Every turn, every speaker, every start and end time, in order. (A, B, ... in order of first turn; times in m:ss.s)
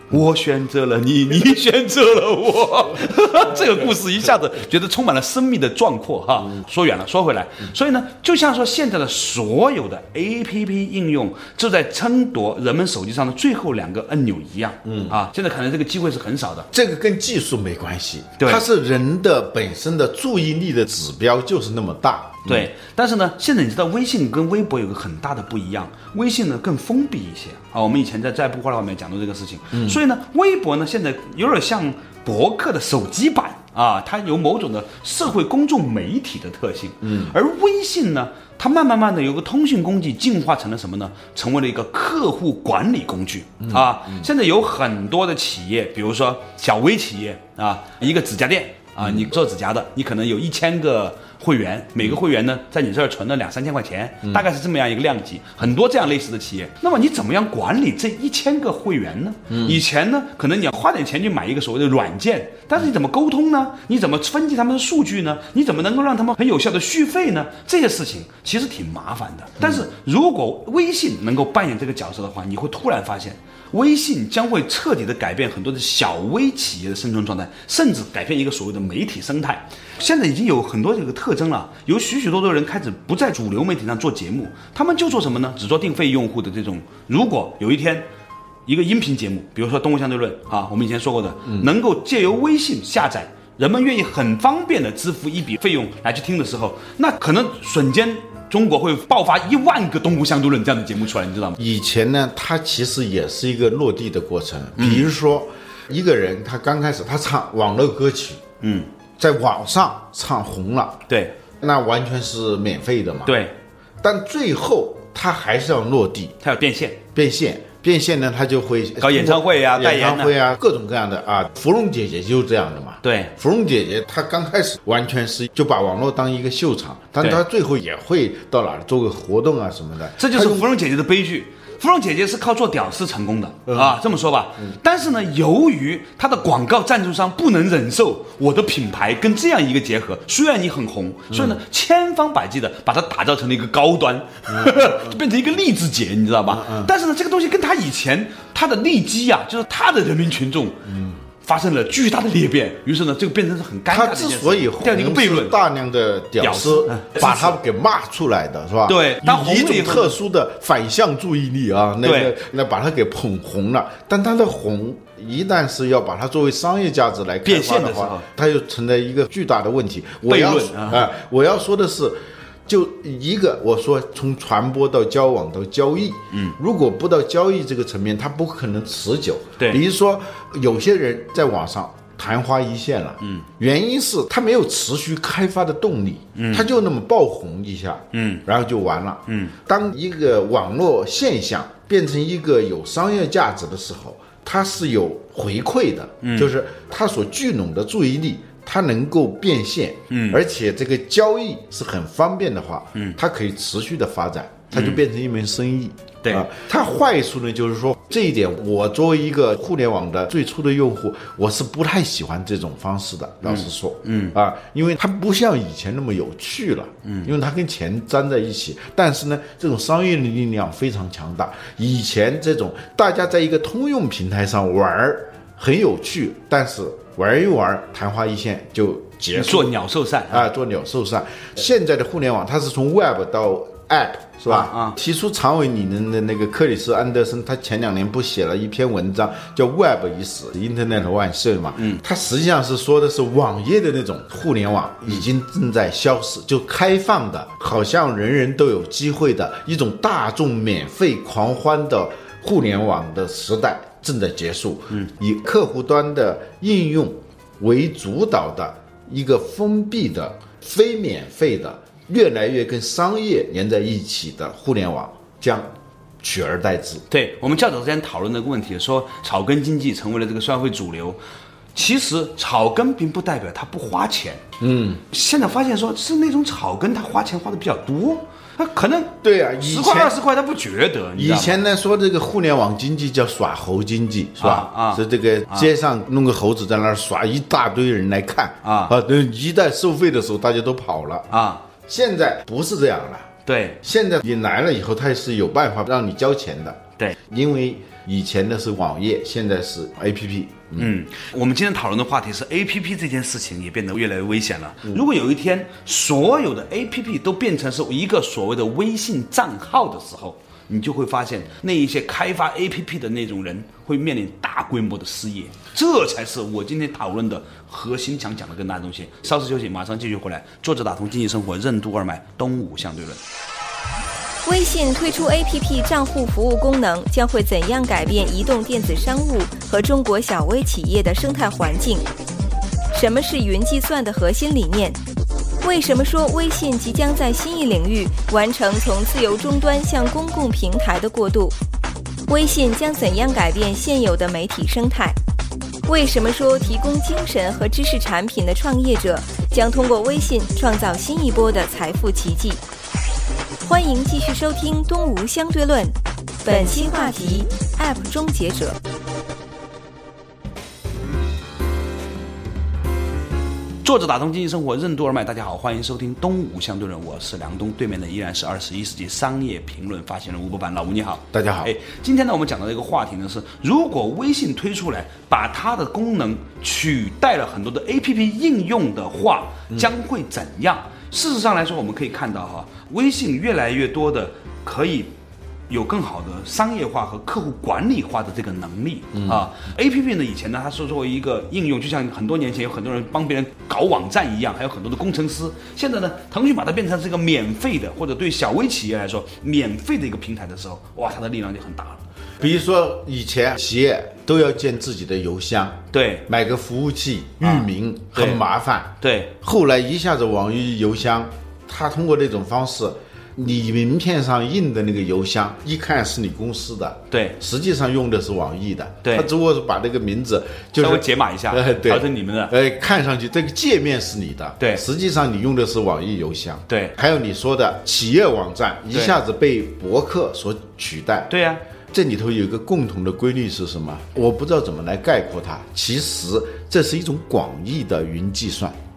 0:00.1-0:16.7 A
0:14.9-0:15.2 B
0:16.7-0:22.7 B
0:22.5-1:28.1 A
0:29.7-0:30.0 B
0:37.0-0:37.4 B
0:43.6-0:44.3 B
0:49.0-0:49.3 B
0:59.5-0:59.8 B
1:28.7-1:41.6 A
1:41.6-1:48.4 B
1:44.8-1:45.1 A
1:48.6-1:48.9 A
1:49.2-1:51.0 B
1:51.1-1:51.4 A
1:51.6-1:53.4 B
1:53.3-1:53.5 A
1:54.0-1:56.4 B
1:56.4-1:57.0 A
1:57.1-2:10.7 B
1:59.0-2:00.4 A
2:03.0-2:03.3 A
2:10.2-2:30.9 A
2:13.7-2:14.0 B
2:21.3-2:21.6 B
2:24.5-2:25.2 B
2:26.5-2:26.9 B
2:30.9-2:31.2 B
2:31.4-2:35.6 A
2:33.9-3:49.7 B
2:36.4-2:37.6 A
2:38.9-2:40.2 A
2:42.0-2:42.3 A
2:47.4-2:48.3 A
2:50.3-2:51.1 A
3:06.4-3:06.7 A
3:08.1-3:08.4 A
3:09.3-3:09.5 A
3:16.2-3:16.5 A
3:20.1-3:20.4 A
3:24.7-3:25.0 A
3:33.5-3:34.4 A
3:37.0-3:37.3 A
3:49.3-3:50.5 A
3:50.3-4:25.7 B
3:54.5-3:55.0 A
4:26.2-4:27.0 B
4:27.1-4:31.2 A
4:31.8-4:34.4 A
4:34.6-4:35.0 B
4:35.1-4:41.6 A
4:39.2-4:40.2 B
4:41.2-4:51.3 B
4:44.4-4:45.7 A
4:48.6-4:49.0 A
4:51.3-4:51.6 A
4:51.8-5:00.9 B
4:53.5-4:53.8 A
5:00.8-5:23.2 A
5:24.4-5:32.0 C
5:32.9-5:35.0 C
5:35.6-5:41.6 C
5:42.3-5:45.2 C
5:45.9-5:52.6 C
5:53.6-5:58.8 C
6:03.8-6:25.1 A
6:11.3-6:11.7 B
6:25.7-6:42.0 A
6:29.1-6:29.5 B
6:42.4-7:11.3 B
6:45.9-6:46.2 A
6:47.4-6:48.4 A
6:49.0-6:49.3 A
6:57.1-6:57.4 A
7:00.8-7:02.5 A
7:06.7-7:07.0 A
7:11.3-7:11.6 A
7:11.9-7:18.8 B